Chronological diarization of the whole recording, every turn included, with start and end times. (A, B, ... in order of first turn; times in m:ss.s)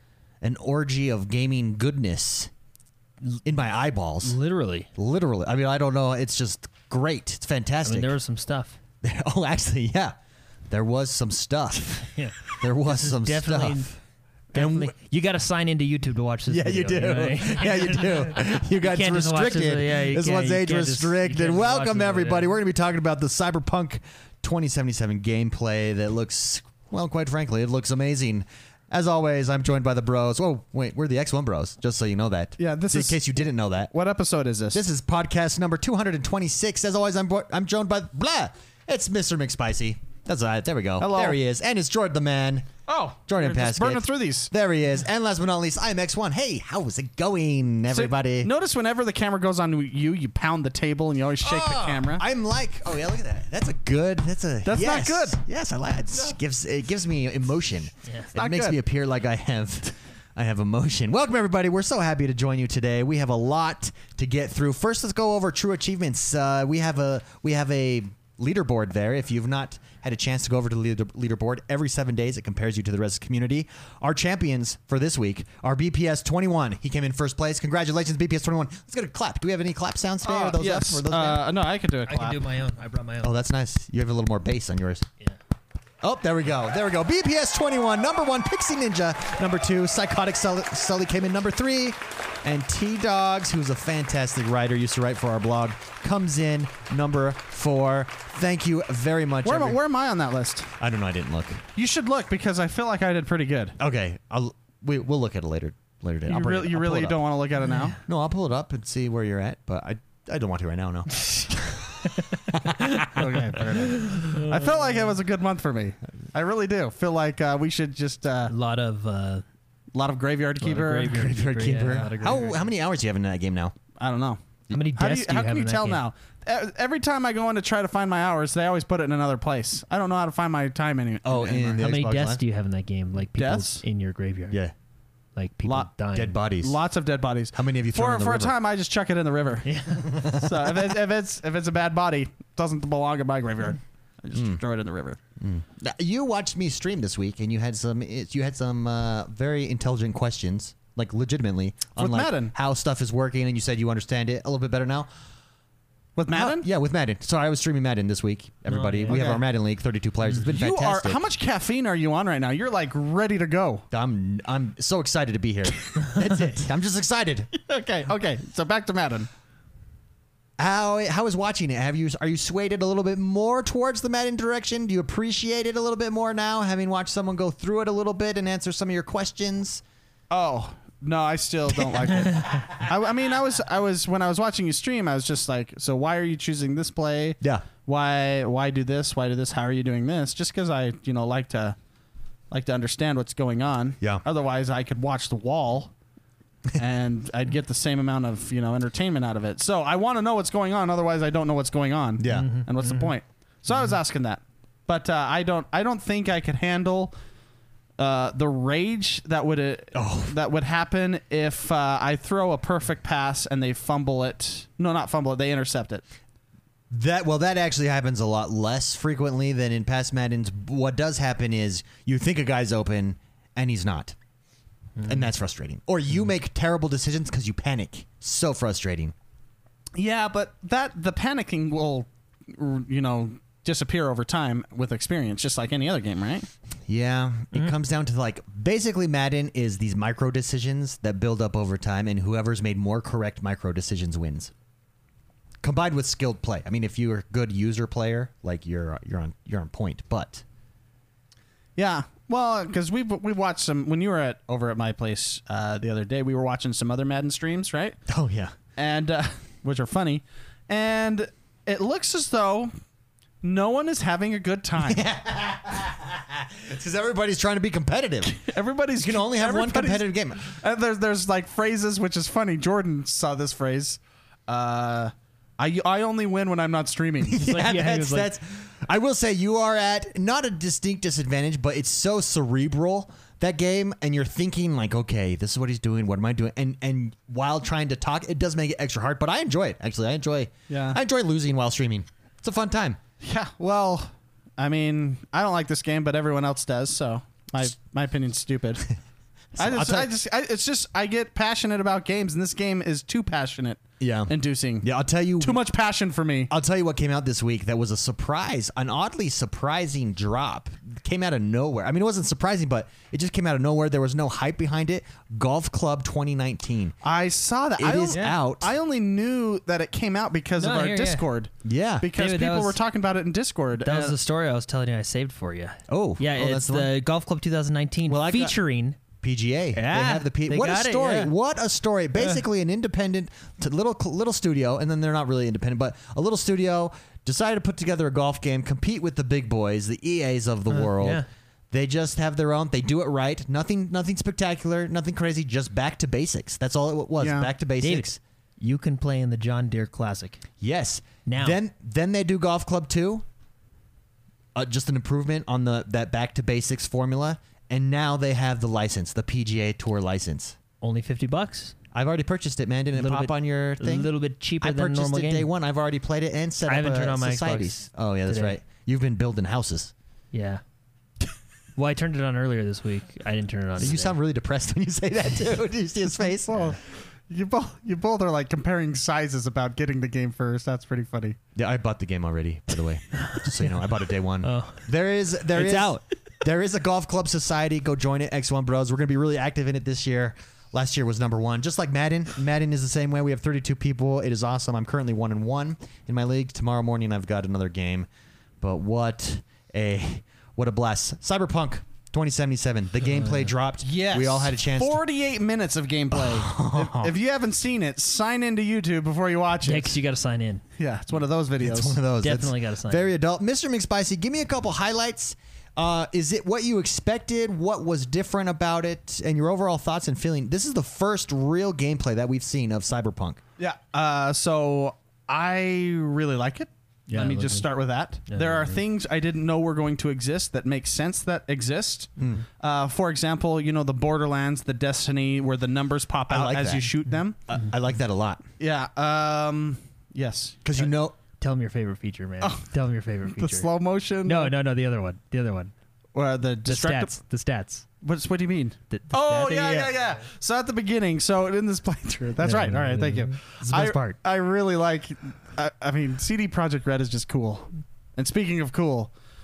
0:00.4-0:02.5 A
0:03.4-0:04.4 A
0:04.2-0:04.9 B
0:05.0-0:08.1 A
0:07.8-0:08.8 B
0:09.0-0:10.1 A
0:10.7-0:13.9 A
0:12.1-0:13.9 B
0:14.5-0:22.5 B
0:14.5-0:14.9 A
0:16.5-0:33.9 A
0:32.6-0:33.3 C
0:33.9-0:34.8 C
0:34.7-0:42.7 A
0:41.0-0:41.4 C
0:42.9-0:44.5 C
0:43.3-0:48.5 A
0:47.9-0:52.2 C
0:51.4-1:21.4 A
0:54.6-0:55.4 C
0:58.3-0:58.8 C
1:20.2-1:22.4 C
1:22.1-1:23.3 B
1:23.2-1:25.0 A
1:26.0-1:39.8 A
1:39.4-1:40.7 C
1:40.8-1:41.6 A
1:41.8-1:43.8 C
1:43.8-1:47.2 A
1:46.3-1:48.0 C
1:47.6-1:48.0 B
1:48.0-1:53.6 A
1:52.8-1:53.0 B
1:53.1-1:58.5 C
1:54.0-1:54.9 B
1:58.5-1:59.4 B
1:59.9-2:01.2 C
2:00.6-2:02.6 B
2:01.1-2:03.7 A
2:04.0-2:04.4 C
2:04.7-2:06.0 B
2:05.0-2:11.8 C
2:11.2-2:12.4 A
2:11.8-2:14.6 B
2:13.4-2:13.8 C
2:15.4-2:16.4 B
2:16.1-2:16.8 A
2:16.6-2:25.2 C
2:17.5-2:18.5 A
2:19.6-2:20.2 B
2:20.0-2:20.7 A
2:25.4-2:35.1 A
2:32.0-2:32.5 C
2:36.2-2:36.7 C
2:36.3-2:41.2 A
2:38.7-2:39.2 B
2:39.1-2:39.4 C
2:40.5-2:43.8 C
2:43.9-2:47.5 A
2:47.6-2:49.3 C
2:50.6-2:59.8 A
3:00.3-3:11.8 C
3:02.4-3:02.8 A
3:12.5-3:15.9 C
3:16.8-3:27.1 C
3:22.2-3:22.5 A
3:22.3-3:23.1 B
3:28.0-3:36.0 C
3:29.9-3:30.3 A
3:36.9-3:44.2 A
3:45.0-3:49.1 A
3:49.9-3:56.5 C
3:56.9-4:04.5 A
4:05.6-4:10.4 A
4:11.8-4:18.0 C
4:18.1-4:18.5 A
4:18.8-4:22.7 C
4:23.4-4:25.0 C
4:24.8-4:28.4 A
4:28.3-4:37.7 C
4:29.0-4:30.5 A
4:37.2-4:53.0 A
4:37.5-4:38.3 B
4:50.7-4:51.0 C
4:53.2-4:58.9 C
4:59.6-5:00.1 A
4:59.6-5:04.9 C
5:04.0-5:05.6 A
5:05.4-5:06.5 C
5:06.5-5:17.0 A
5:17.0-5:24.1 C
5:17.8-5:18.7 A
5:18.1-5:18.4 B
5:20.6-5:21.2 B
5:21.6-5:22.1 A
5:22.1-5:22.8 B
5:23.8-5:29.0 B
5:25.9-5:26.9 A
5:28.1-5:28.5 A
5:29.2-5:48.2 A
5:29.7-5:31.3 B
5:40.7-5:41.2 B
5:47.2-5:47.5 C
5:47.8-5:48.1 B
5:48.6-5:50.4 B
5:50.6-5:53.2 A
5:51.2-5:51.6 B
5:54.5-6:00.6 A
6:00.8-6:01.7 B
6:01.9-6:09.9 A
6:02.9-6:05.5 B
6:06.6-6:08.6 B
6:10.3-6:10.6 B
6:11.8-6:14.2 B
6:13.8-6:16.8 A
6:17.3-6:21.4 C
6:21.6-6:38.1 A
6:24.4-6:24.9 B
6:25.5-6:26.0 B
6:38.6-6:45.0 A
6:43.2-6:43.5 B
6:43.8-6:50.0 C
6:46.1-6:47.1 A
6:49.6-6:50.6 B
6:50.8-6:52.0 C
6:51.6-7:03.4 A
6:52.2-6:53.1 B
7:03.6-7:17.4 C
7:07.1-7:07.7 B
7:08.3-7:08.8 B
7:16.3-7:16.9 A
7:17.5-7:18.4 A
7:18.6-7:20.9 C
7:20.6-7:21.2 A
7:21.4-7:23.7 B
7:23.2-7:24.5 C
7:24.2-7:25.7 B
7:26.1-7:27.1 C
7:26.6-7:27.8 B
7:28.0-7:39.1 C
7:28.9-7:29.9 B
7:32.4-7:34.2 B